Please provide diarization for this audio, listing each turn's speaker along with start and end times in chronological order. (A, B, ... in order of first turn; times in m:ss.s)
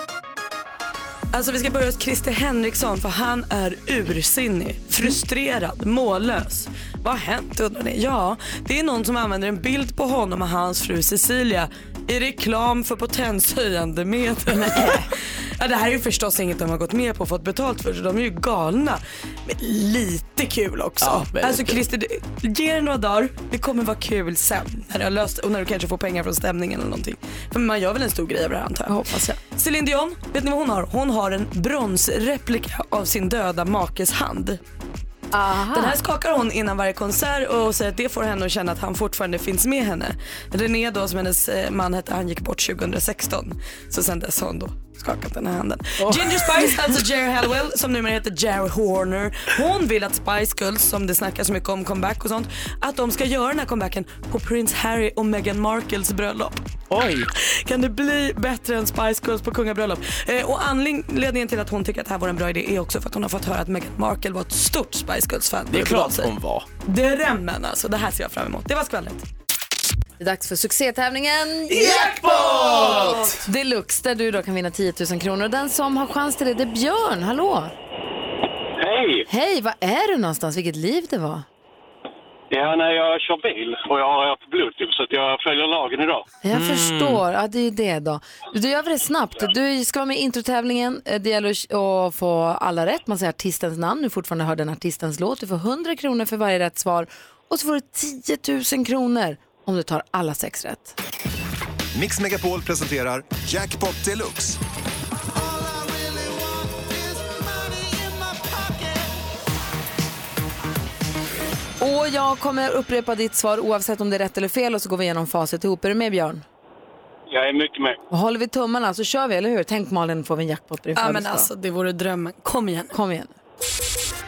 0:01.3-0:34.6 A
0:21.0-0:21.8 B
0:28.9-0:29.3 C
0:35.3-0:36.0 C
0:35.7-0:56.6 A
0:56.9-0:57.3 B
0:57.3-1:06.3 A
1:05.7-1:06.7 B
1:06.8-1:09.2 A
1:10.2-1:17.7 C
1:11.7-1:13.4 B
1:12.8-1:13.3 A
1:18.8-1:19.3 D
1:19.3-1:21.4 C
1:22.5-1:26.3 D
1:26.4-1:40.9 C
1:26.5-1:27.2 B
1:41.9-1:44.6 E
1:45.3-1:49.2 E
1:51.8-1:56.4 C
1:57.3-1:58.0 D
1:58.1-2:01.5 C
2:01.0-2:02.9 A
2:02.9-2:03.3 C